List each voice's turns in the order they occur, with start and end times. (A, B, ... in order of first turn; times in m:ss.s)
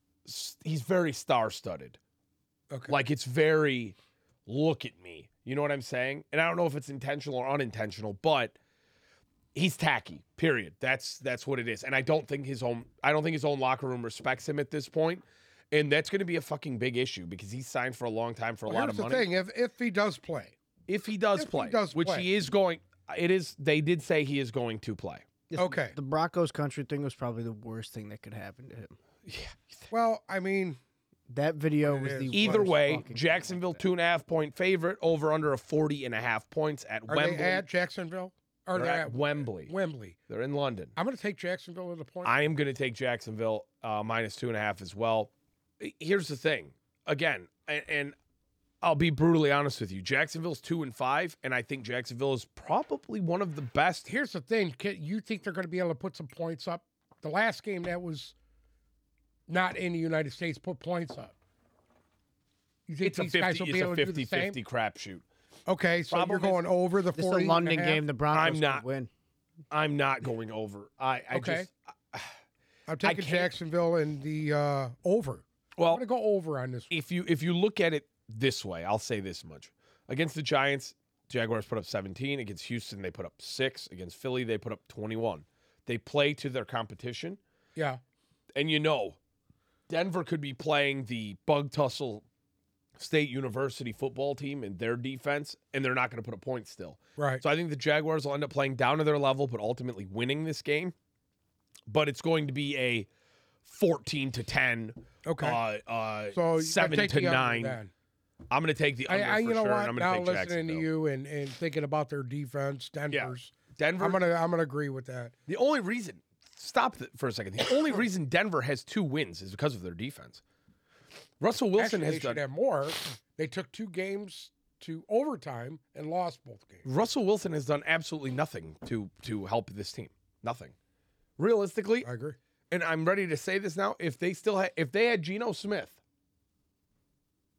0:00.2-0:02.0 A
0:02.9-0:08.6 A
0:09.5-0:19.3 A
0:18.7-0:20.5 B
0:20.9-0:25.2 A
0:21.3-0:22.3 B
0:25.5-0:29.0 C
0:25.6-0:25.9 B
0:29.2-0:29.9 A
0:29.9-0:30.8 B
0:31.3-0:33.7 C
0:31.8-0:32.8 B
0:32.3-0:37.6 A
0:37.1-0:40.2 B
0:38.7-0:39.7 A
0:40.3-0:40.9 A
0:41.0-0:42.3 B
0:42.2-0:48.2 A
0:48.8-0:54.1 A
0:54.1-0:58.3 B
0:59.5-1:01.3 B
1:02.9-1:04.6 B
1:03.0-1:05.2 A
1:05.7-1:08.0 B
1:06.1-1:06.6 A
1:07.1-1:09.1 C
1:08.3-1:08.8 A
1:09.7-1:12.3 A
1:11.3-1:11.7 B
1:12.9-1:16.9 B
1:13.0-1:13.5 A
1:15.8-1:16.0 A
1:16.9-1:27.4 A
1:28.5-1:29.2 A
1:29.9-1:32.2 A
1:33.0-1:40.9 A
1:37.2-1:37.4 B
1:41.9-1:43.1 A
1:43.6-1:47.8 A
1:45.2-1:45.6 B
1:46.3-1:47.9 B
1:48.5-1:50.8 A
1:49.1-1:55.3 B
1:53.1-1:54.2 A
1:55.5-2:00.4 A
2:01.4-2:02.4 A
2:01.8-2:06.8 B
2:06.8-2:10.7 A
2:11.4-2:12.1 A
2:12.0-2:12.4 B
2:12.7-2:16.0 A